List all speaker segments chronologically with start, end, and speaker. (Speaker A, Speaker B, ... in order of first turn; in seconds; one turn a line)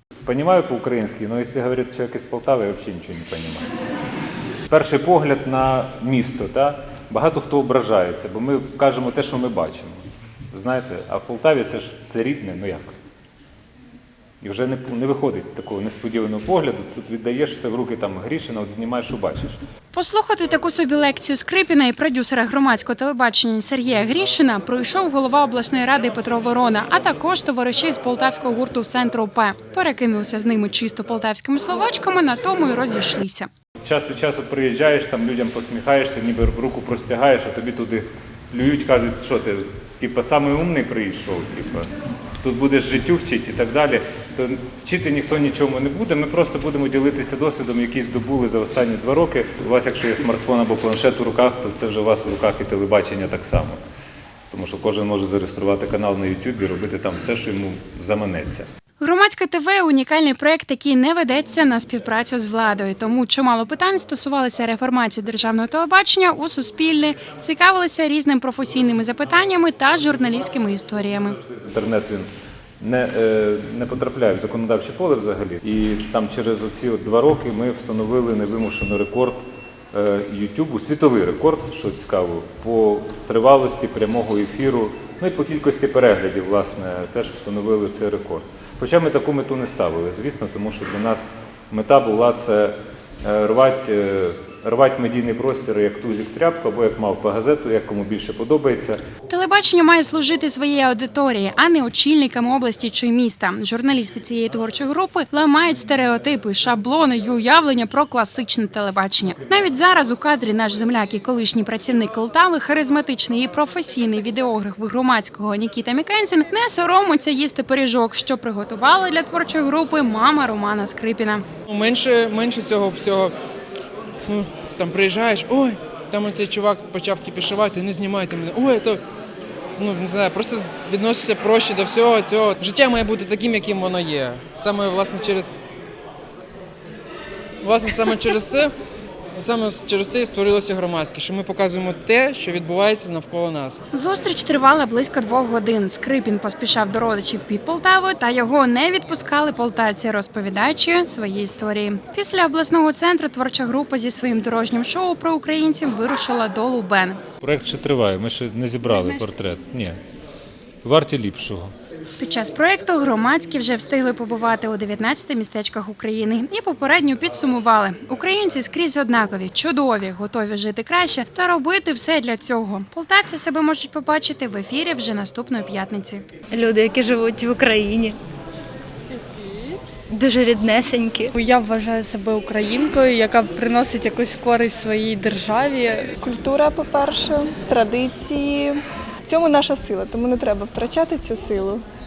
Speaker A: 0.2-3.7
Speaker A: 4.7-10.0
Speaker A: 10.5-12.9
Speaker A: 14.4-19.6
Speaker B: 19.9-33.5
Speaker A: 33.8-41.9
Speaker A: 42.4-53.8
Speaker A: 54.5-58.7
Speaker B: 59.0-71.4
Speaker A: 71.4-72.3
Speaker A: 72.8-99.0
Speaker B: 99.3-121.4
Speaker C: 121.7-123.3
Speaker C: 124.2-129.0
Speaker C: 129.8-135.5
Speaker C: 137.6-138.7
Speaker C: 139.3-143.8
Speaker B: 143.9-157.2
Speaker A: 157.4-160.0
Speaker B: 158.8-159.2
Speaker A: 160.8-161.7
Speaker B: 162.2-176.2
Speaker D: 176.5-178.2
Speaker E: 179.2-179.8
Speaker D: 180.1-181.3
Speaker E: 181.3-186.1
Speaker F: 186.2-191.8